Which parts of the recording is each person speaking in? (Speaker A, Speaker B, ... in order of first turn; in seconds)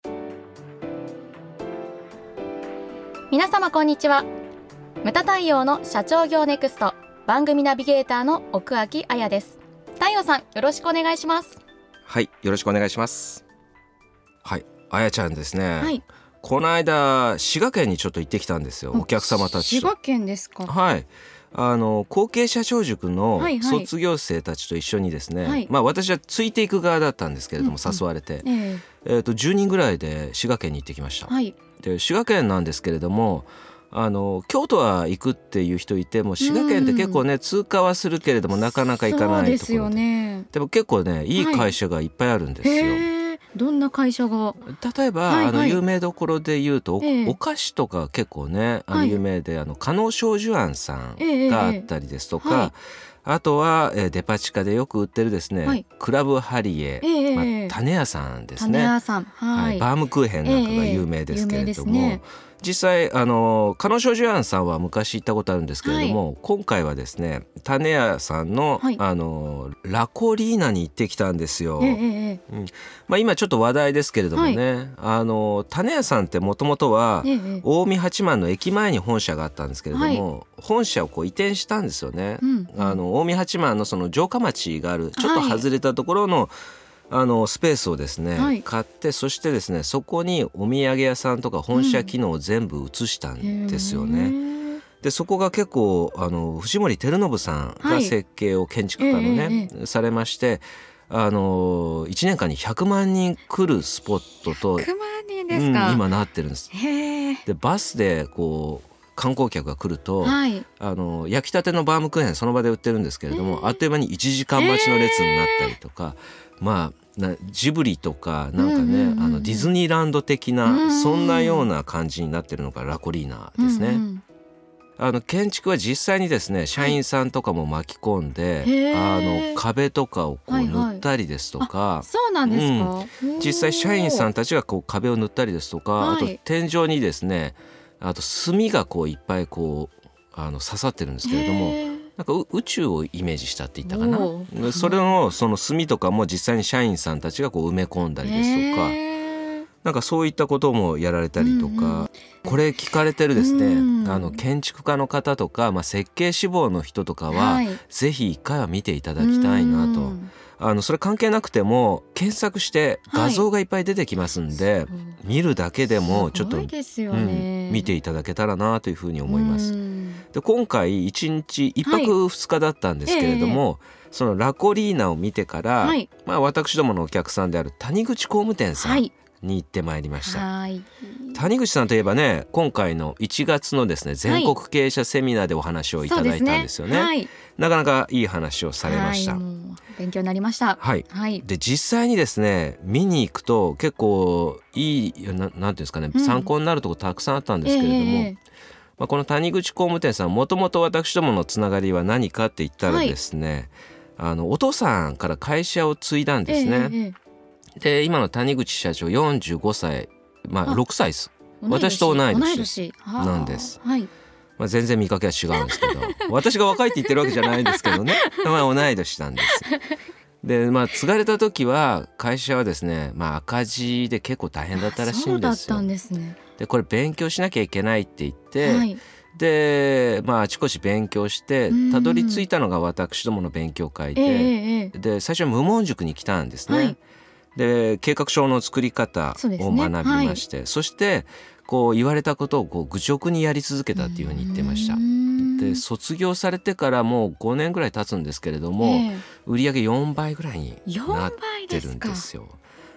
Speaker A: 3.3-4.3, 5.0-11.6, 18.9-20.7, 23.4-23.9, 25.4-25.7, 27.6-28.8, 31.3-31.6, 36.4-37.2, 39.0-40.5, 41.4-41.7, 42.6-44.6, 45.3-45.8, 47.0-47.4, 48.9-49.2, 51.2-51.9, 52.4-52.7, 57.0-57.8, 58.6-59.9, 60.4-62.2, 65.8-66.2, 71.8-72.4, 74.3-74.6, 77.2-77.7, 79.9-80.2, 82.4-83.0, 85.2-85.7, 88.4-88.6, 91.7-92.1, 93.4-94.8, 97.8-98.2, 99.0-99.7, 104.5-106.0, 106.7-107.4, 110.2-110.7, 113.3-113.8, 114.5-115.8, 118.6-119.7, 120.7-121.7, 123.6-124.2, 128.6-129.6, 130.5-131.1, 131.6-134.3, 136.0-136.4, 141.2-142.1, 143.9-145.1, 148.2-149.7, 151.4-152.6, 153.4-154.4, 157.3-157.8, 159.2-160.3, 163.1-163.4, 164.9-165.2, 165.9-167.9, 169.3-170.2, 171.8-172.2, 173.1-173.6, 175.8-176.1, 178.8-179.1, 180.2-181.4, 184.3-184.6, 186.0-187.3, 188.8-191.4, 196.1-196.5, 197.6-198.4, 202.8-203.2, 206.5-207.2, 211.6-214.1, 215.6-216.3, 216.9-218.4, 219.5-219.8, 224.8-226.4, 228.6-229.0, 231.7-232.4, 234.2-234.9, 236.7-237.0, 239.4-240.4, 243.9-245.8, 248.8-249.2, 250.9-252.3
Speaker B: 12.1-13.4, 14.4-19.9, 20.7-28.5, 29.0-43.1, 44.6-58.9, 59.5-86.5, 87.1-94.4, 95.0-104.9, 105.5-106.7, 107.5-124.0, 125.0-149.0, 149.8-169.8, 170.3-180.5, 181.3-189.4, 190.8-198.3, 199.0-207.0, 207.8-213.8, 214.6-219.7, 220.4-225.9, 226.6-237.0, 237.6-252.6